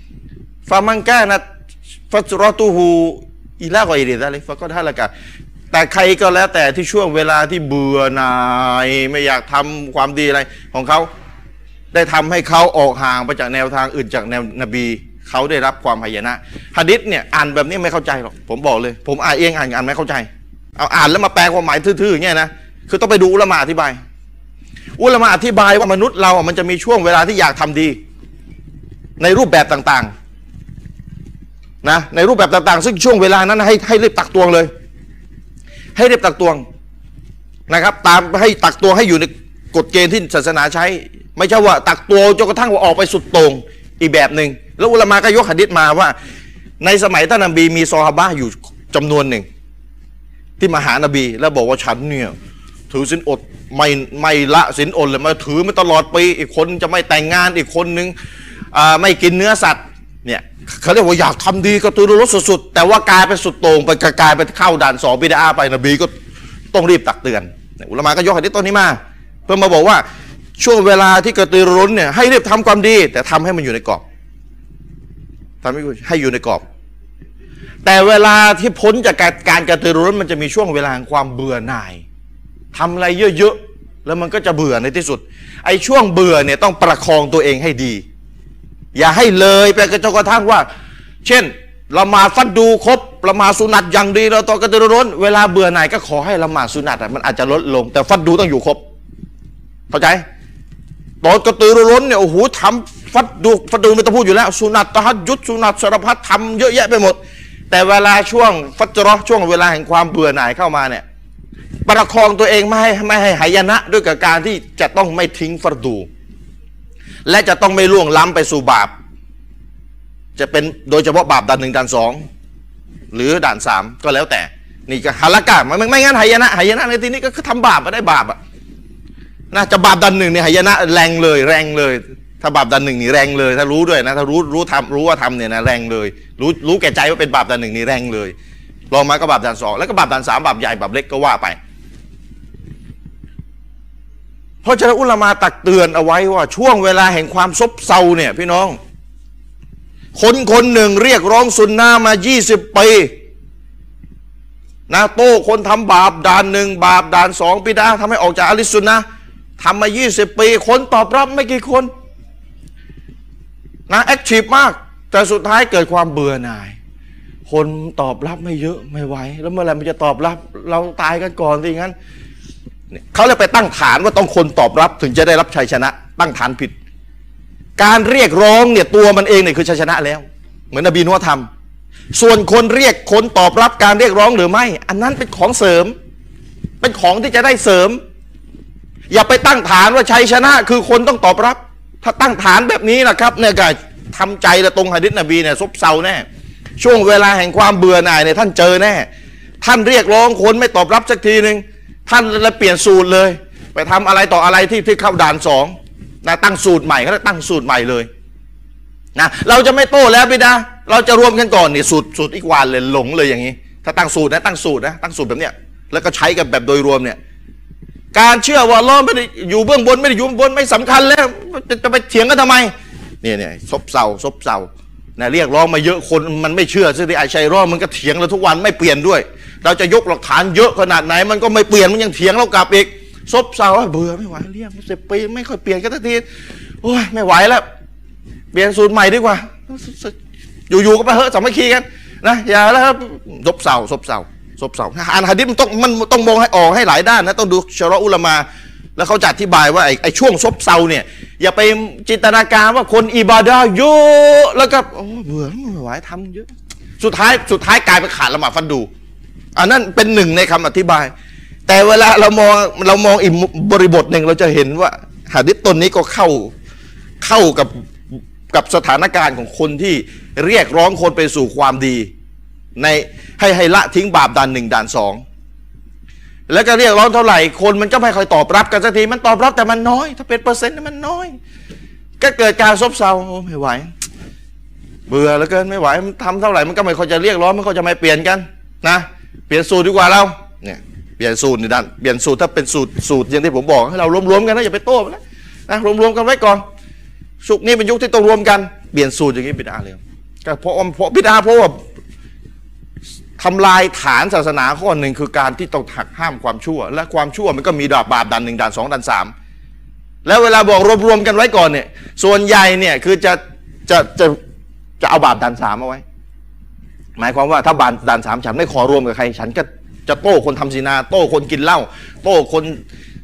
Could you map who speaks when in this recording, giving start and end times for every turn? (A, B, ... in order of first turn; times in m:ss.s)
0:00.7-0:01.4 A
0:02.1-0:05.1 A
0:05.7-0:11.1 A
0:11.9-0:24.0 A
0:25.0-0:28.0 A
0:29.2-0:30.1 A
0:31.8-0:34.7 A
0:36.0-0:36.6 A
0:37.7-0:46.1 A
0:46.8-0:49.4 A
0:50.6-0:52.3 A
0:52.9-0:58.1 A
0:58.7-1:06.1 A
1:06.7-1:10.0 A
1:10.6-1:14.0 A
1:15.6-1:16.6 A
1:17.8-1:22.0 A
1:22.7-1:28.0 A
1:28.9-1:30.7 A
1:31.2-1:38.8 A
1:39.9-1:40.2 A
1:41.2-1:47.2 A
1:47.7-1:51.0 A
1:51.9-1:56.1 A
1:57.2-1:58.9 A
2:00.4-2:02.2 A
2:03.1-2:08.4 A
2:09.5-2:18.3 A
2:18.9-2:21.6 A
2:24.6-2:28.8 A
2:30.1-2:33.1 A
2:34.9-2:39.0 A
2:39.6-2:41.9 A
2:43.9-2:46.8 A
2:47.5-2:51.9 A
2:52.9-2:56.7 A
2:57.8-3:01.5 A
3:02.1-3:06.0 A
3:06.8-3:08.0 A
3:09.1-3:16.2 A
3:16.8-3:19.1 A
3:19.6-3:28.1 A
3:29.2-3:37.2 A
3:38.1-3:42.7 A
3:43.2-3:56.2 A
3:56.8-3:57.6 A
3:58.5-4:00.1 A
4:00.7-4:16.5 A
4:17.0-4:18.9 A
4:19.6-4:21.1 A
4:21.7-4:26.5 A
4:27.2-4:27.7 A
4:28.5-4:32.1 A
4:32.8-4:35.2 A
4:36.5-4:41.4 A
4:42.2-4:43.9 A
4:45.1-4:56.6 A
4:57.4-5:01.8 A
5:03.4-5:09.3 A
5:10.2-5:14.4 A
5:15.0-5:16.0 A
5:17.2-5:22.8 A